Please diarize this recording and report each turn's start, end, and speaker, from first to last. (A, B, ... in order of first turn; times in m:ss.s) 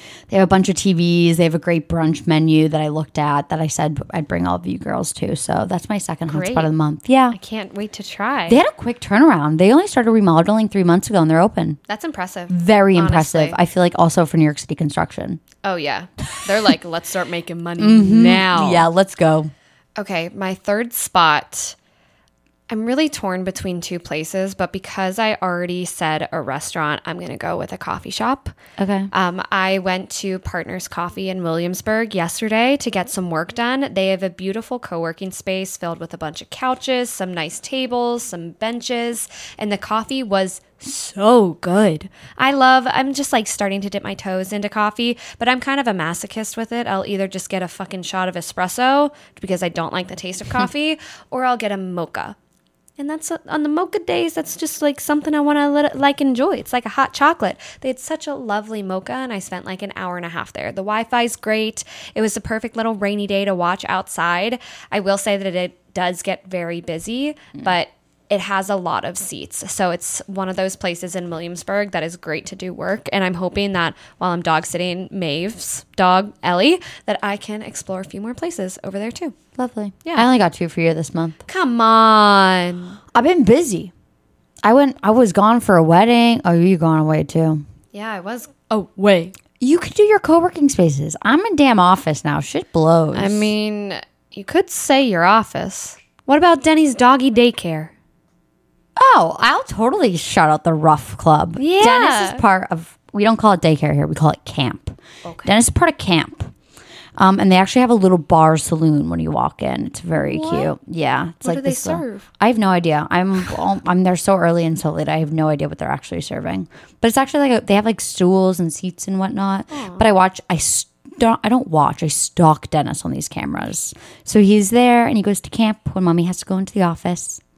0:00.3-0:07.4 A
0:06.3-0:06.7 B
0:07.3-0:08.6 B
0:08.5-0:11.8 A
0:11.9-0:13.6 B
0:12.5-0:15.4 A
0:15.6-0:18.9 B
0:17.8-0:19.5 A
0:20.0-0:21.8 B
0:22.7-0:28.5 B
0:28.8-0:29.1 A
0:29.1-0:52.4 B
0:53.0-1:19.3 B
1:19.6-1:21.4 A
1:21.5-1:23.0 B
1:23.1-1:23.9 A
1:24.6-1:27.6 A
1:27.9-1:29.4 B
1:29.6-1:33.5 A
1:33.1-1:37.9 B
1:39.0-1:46.5 A
1:41.6-1:42.4 B
1:45.2-1:45.5 B
1:47.2-2:07.4 A
1:50.1-1:50.7 B
1:51.4-1:52.2 B
1:59.7-2:00.0 B